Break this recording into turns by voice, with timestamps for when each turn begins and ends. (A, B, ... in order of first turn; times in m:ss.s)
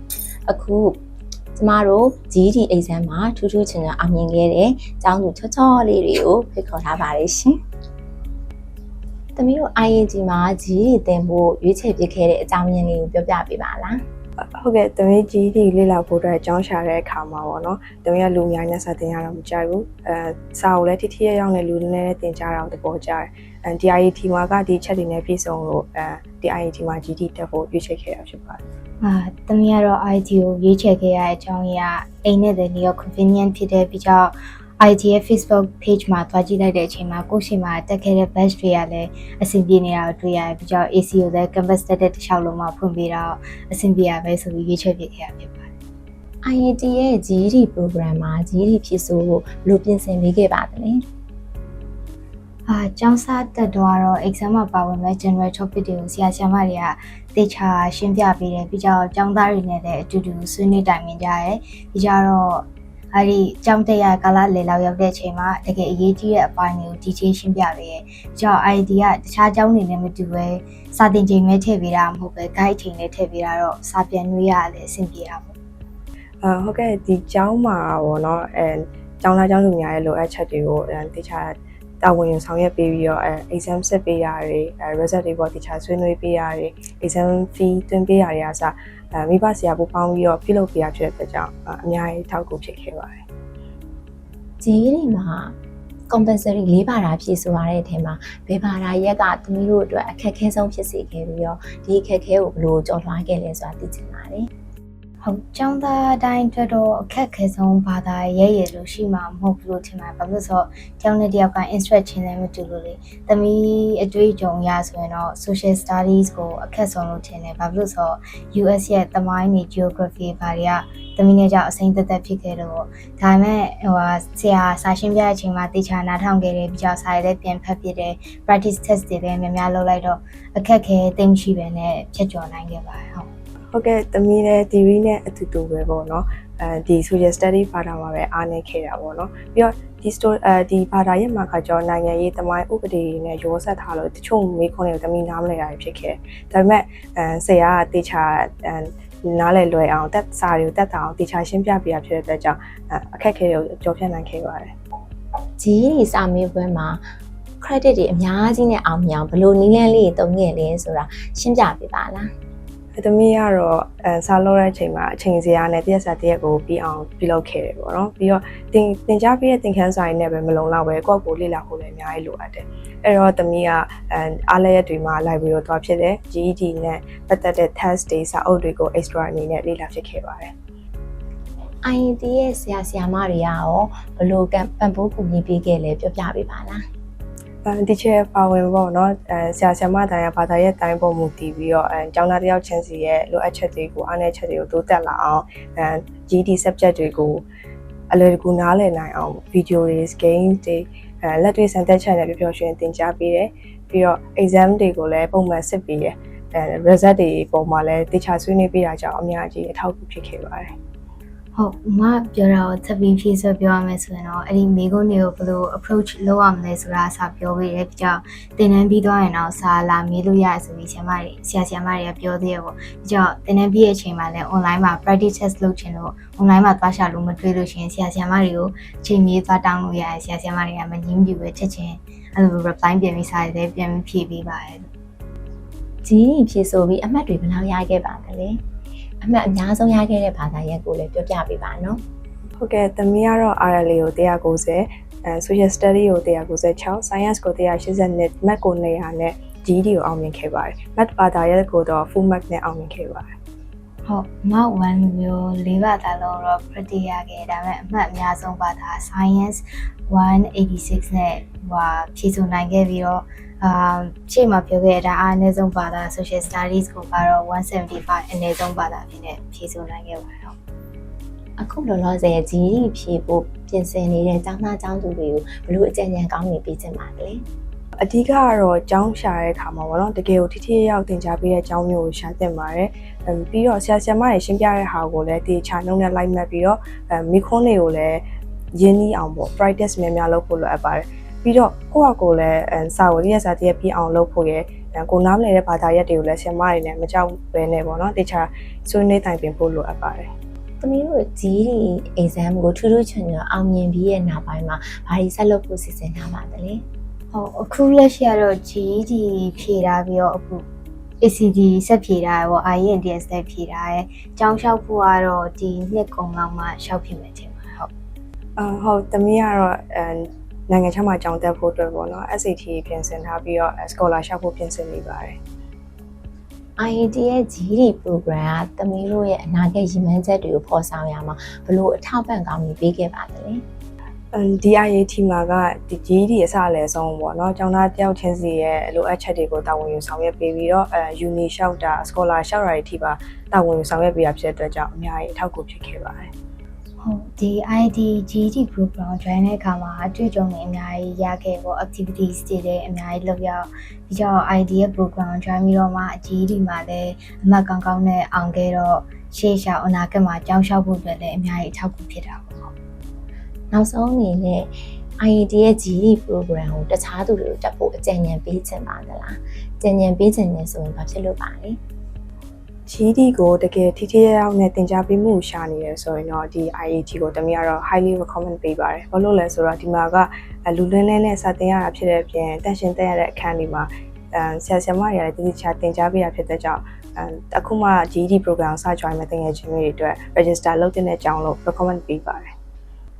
0:00.5-0:01.0 A
0:01.6-0:07.6 A
0:09.4-0:14.0 A
0:14.6-0:28.6 B
0:29.0-0:45.7 C
0:46.4-0:51.1 A
0:52.7-1:15.6 C
1:16.4-1:33.2 B
1:34.6-1:35.6 A
1:36.1-1:44.5 A
1:45.2-2:13.3 C
2:13.7-2:34.7 B
2:35.6-2:37.0 A
2:37.6-2:42.3 A
2:43.0-3:00.5 B
3:01.8-3:06.8 A
3:07.6-3:17.4 B
3:18.1-3:30.7 B
3:31.6-3:54.9 C
3:56.0-3:58.6 A
3:59.2-4:02.0 A
4:02.6-4:13.3 B
4:14.1-4:30.6 C
4:31.6-4:37.4 A
4:38.0-4:48.2 B
4:48.7-5:00.3 B
5:00.8-5:06.8 A
5:07.3-5:10.6 C
5:11.2-5:17.9 C
5:18.6-5:25.4 B
5:26.8-5:33.6 A
5:34.3-5:46.3 B
5:47.0-6:02.7 C
6:03.7-6:11.8 A
6:12.9-6:32.5 B